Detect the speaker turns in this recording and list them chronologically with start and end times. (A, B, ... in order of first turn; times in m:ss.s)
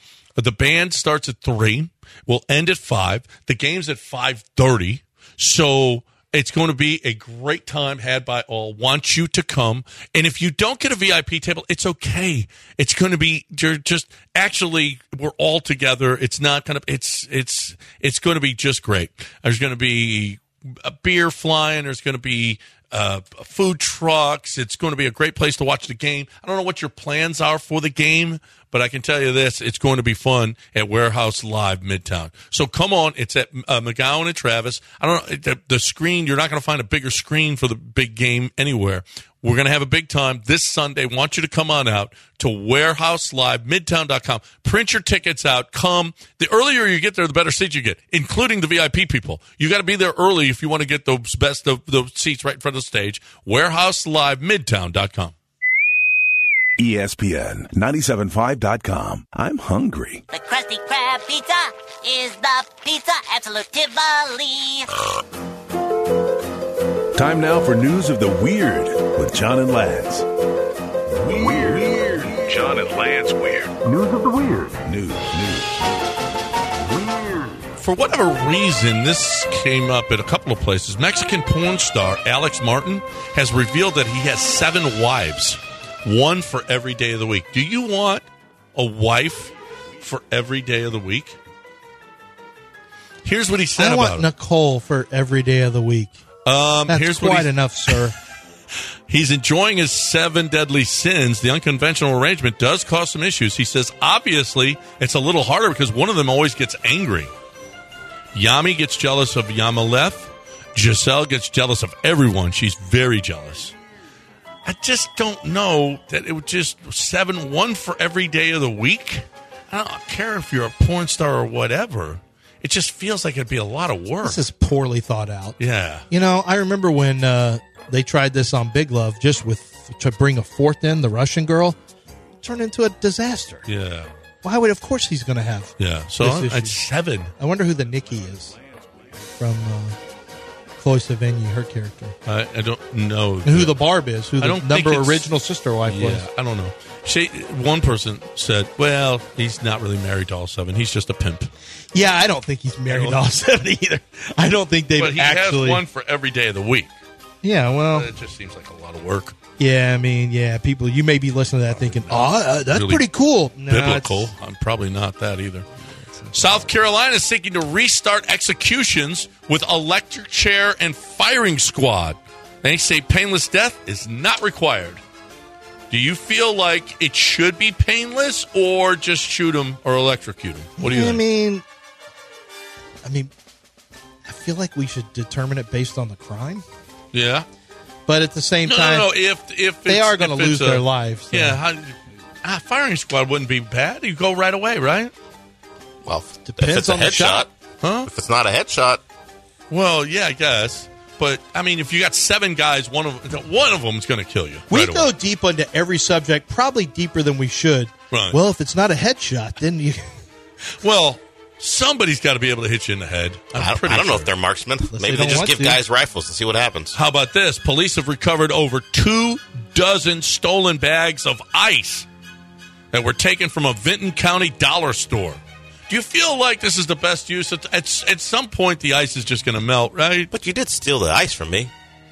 0:00.4-0:55.3 A
0:56.8-1:00.2 B
1:00.3-1:04.9 C
1:07.1-1:10.2 B
1:11.1-1:15.8 B
1:16.9-1:17.6 B
1:17.8-1:31.4 A
1:33.2-1:34.3 A
1:33.8-1:36.1 D
1:36.4-1:38.1 A
1:36.9-1:38.1 D
1:39.1-1:47.3 A
1:48.3-1:53.7 A
1:54.6-2:04.4 A
2:04.2-2:05.6 D
2:05.6-2:06.0 A
2:06.1-2:11.8 D
2:12.4-2:13.7 D
2:13.7-2:14.1 A
2:14.4-2:16.8 D
2:15.8-2:17.3 A
2:17.4-2:18.6 D
2:19.2-2:20.0 D
2:20.8-2:22.2 D
2:22.2-2:23.7 A
2:23.4-2:26.2 D
2:24.4-2:25.3 A
2:25.8-2:31.5 A
2:31.9-2:35.8 D
2:32.9-2:33.2 A
2:35.0-2:36.9 A
2:37.4-2:38.1 D
2:37.9-2:39.4 A
2:39.6-2:44.3 D
2:41.9-2:43.0 A
2:43.7-2:45.7 A
2:46.3-2:55.0 A
2:55.9-3:01.2 A
3:00.8-3:01.6 D
3:03.0-3:03.3 D
3:04.2-3:06.6 D
3:07.1-3:07.4 A
3:08.1-3:09.1 D
3:08.6-3:15.1 A
3:09.9-3:11.6 D
3:16.0-3:17.5 E
3:16.4-3:17.5 D
3:17.8-3:18.1 A
3:18.0-3:19.0 E
3:19.7-3:25.1 A
3:24.7-3:30.1 D
3:28.1-3:28.4 A
3:30.8-3:34.3 A
3:33.5-3:37.0 E
3:34.9-3:35.8 D
3:36.9-3:42.1 A
3:42.9-3:50.3 A
3:50.3-3:51.7 E